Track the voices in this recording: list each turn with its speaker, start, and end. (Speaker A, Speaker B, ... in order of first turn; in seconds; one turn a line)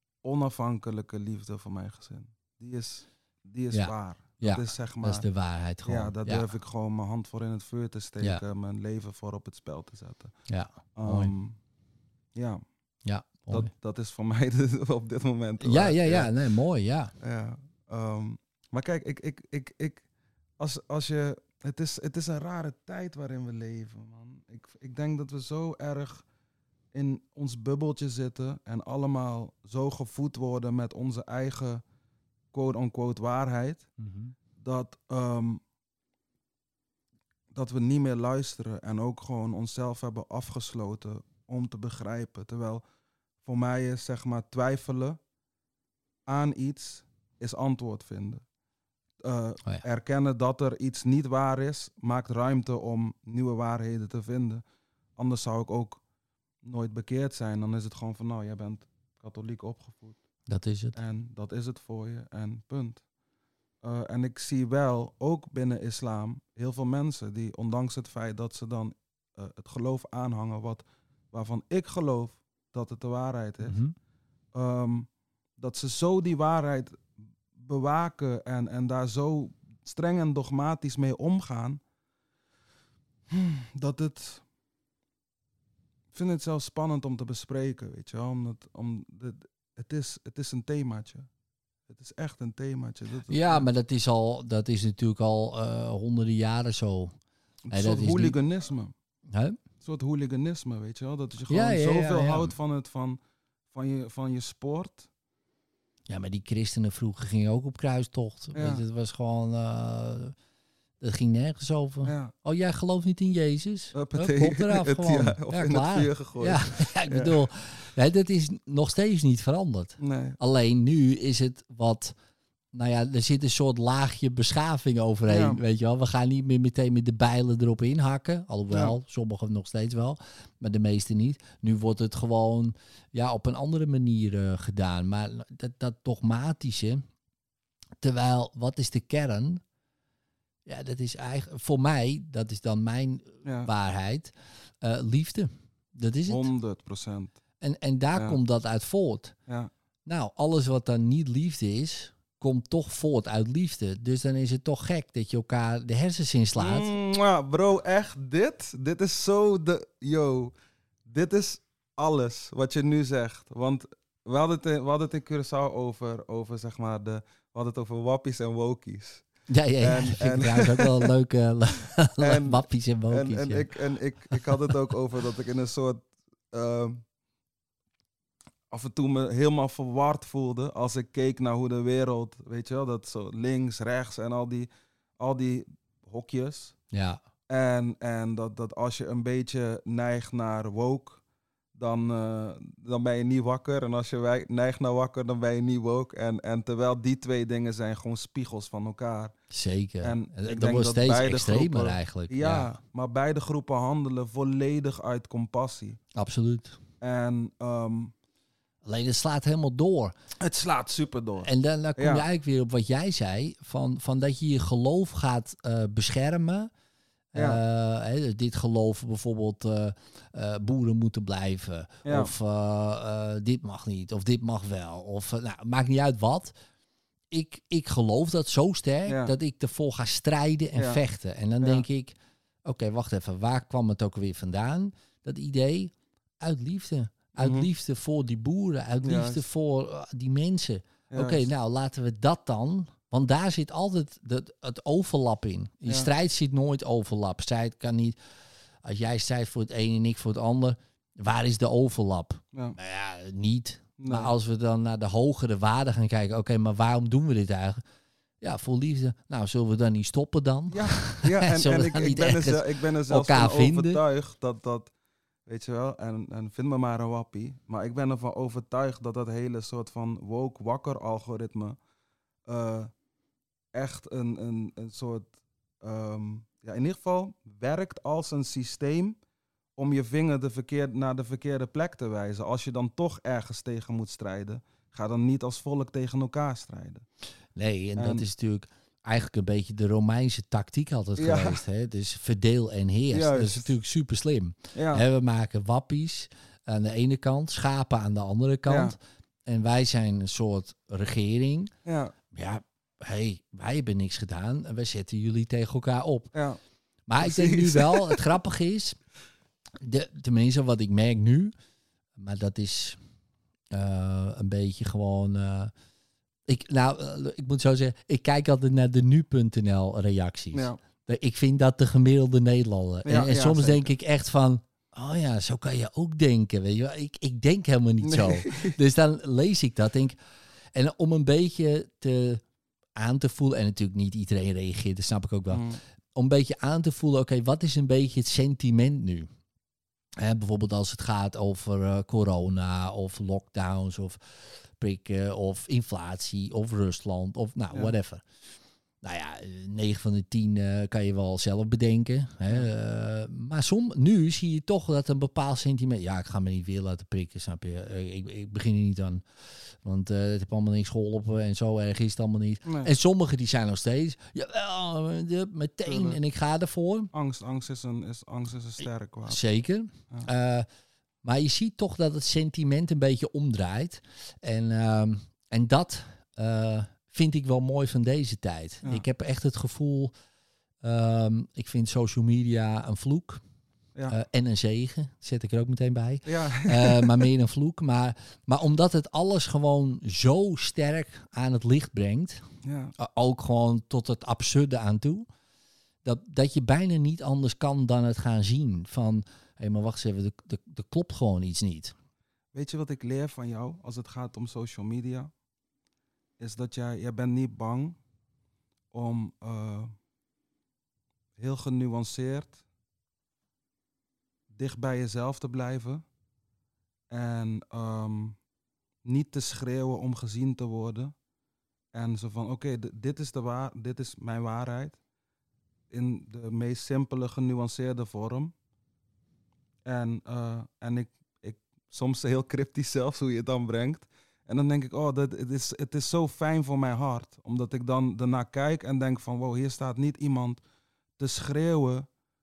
Speaker A: 0.2-5.2
Speaker B: 3.7-6.5
Speaker A: 5.8-10.3
Speaker B: 10.5-11.3
Speaker A: 10.9-11.6
Speaker A: 12.3-12.6
Speaker B: 13.1-13.7
Speaker A: 13.5-16.3
Speaker B: 15.6-17.1
Speaker A: 17.2-20.1
Speaker A: 20.6-26.2
Speaker A: 26.9-31.8
Speaker A: 32.5-33.9
Speaker B: 34.0-34.3
Speaker A: 34.6-35.6
Speaker A: 37.5-42.8
Speaker A: 43.4-45.2
Speaker A: 46.3-48.4
Speaker A: 49.2-54.6
Speaker A: 55.2-56.0
Speaker A: 56.6-60.2
Speaker B: 60.5-61.0
Speaker A: 60.9-63.0
Speaker A: 63.8-73.8
Speaker B: 73.6-74.0
Speaker A: 74.5-81.8
Speaker A: 83.3-84.4
Speaker A: 86.1-91.3
Speaker A: 91.9-93.7
Speaker B: 93.3-97.2
Speaker A: 97.7-98.9
Speaker B: 97.7-98.4
Speaker B: 99.3-99.6
Speaker A: 99.8-103.2
Speaker B: 101.5-102.5
Speaker A: 103.7-105.1
Speaker B: 106.1-110.3
Speaker A: 108.5-108.8
Speaker B: 111.0-122.1
Speaker A: 112.0-112.3
Speaker A: 113.9-117.4
Speaker A: 120.0-120.4
Speaker B: 122.7-137.0
Speaker A: 125.3-125.6
Speaker B: 138.0-139.6
Speaker B: 140.7-146.5
Speaker A: 143.4-143.7
Speaker A: 146.3-147.4
Speaker B: 147.6-149.3
Speaker B: 150.1-156.9
Speaker A: 156.6-160.5
Speaker A: 161.1-169.3
Speaker B: 169.5-173.7
Speaker A: 169.8-171.1
Speaker A: 172.2-177.0
Speaker A: 178.7-184.7
Speaker A: 185.2-186.8
Speaker B: 186.9-187.2
Speaker A: 187.5-191.2
Speaker A: 191.8-199.3
Speaker B: 199.5-202.7
Speaker A: 200.0-206.0
Speaker B: 206.1-206.8
Speaker A: 207.0-208.1
Speaker B: 208.8-210.1
Speaker A: 210.4-212.2
Speaker B: 211.4-216.7
Speaker B: 217.3-226.5
Speaker A: 217.3-217.6
Speaker A: 222.0-222.3
Speaker B: 227.3-248.2
Speaker A: 229.1-229.3
Speaker A: 230.8-231.0
Speaker A: 231.6-231.8
Speaker A: 237.4-237.7
Speaker A: 239.0-239.4
Speaker A: 241.1-241.5
Speaker B: 248.8-257.8
Speaker A: 254.0-254.3
Speaker B: 258.4-264.0
Speaker A: 260.7-264.9
Speaker A: 265.5-271.8
Speaker A: 272.5-272.9
Speaker A: 273.7-279.2
Speaker A: 279.8-287.1
Speaker B: 287.6-301.7
Speaker A: 288.0-288.2
Speaker A: 291.2-291.6
Speaker A: 293.1-293.7
Speaker A: 294.8-295.1
Speaker A: 298.7-299.0
Speaker A: 301.9-302.1
Speaker B: 302.3-306.3
Speaker A: 306.3-306.6
Speaker B: 307.1-309.0
Speaker A: 307.2-308.3
Speaker B: 309.8-311.5
Speaker B: 312.2-313.0
Speaker B: 313.7-315.7
Speaker B: 316.5-330.2
Speaker A: 320.5-320.8
Speaker A: 323.1-323.9
Speaker A: 328.0-328.8
Speaker B: 330.7-332.4
Speaker B: 333.0-339.3
Speaker A: 335.5-335.8
Speaker B: 340.2-348.2
Speaker B: 349.0-367.1
Speaker A: 362.6-362.9
Speaker A: 365.9-366.2
Speaker A: 367.1-369.4
Speaker B: 369.3-370.7
Speaker B: 371.2-380.1
Speaker B: 380.8-383.4
Speaker B: 384.1-392.4
Speaker A: 386.3-387.3
Speaker A: 392.6-392.9
Speaker B: 393.0-395.3
Speaker B: 396.0-401.9
Speaker A: 402.5-405.3
Speaker A: 406.4-408.0
Speaker A: 408.9-409.9
Speaker A: 411.4-412.6
Speaker A: 414.5-416.0
Speaker A: 417.1-418.4
Speaker A: 419.1-421.1
Speaker A: 421.9-425.0
Speaker A: 425.9-428.5
Speaker A: 429.9-440.6
Speaker A: 441.2-442.1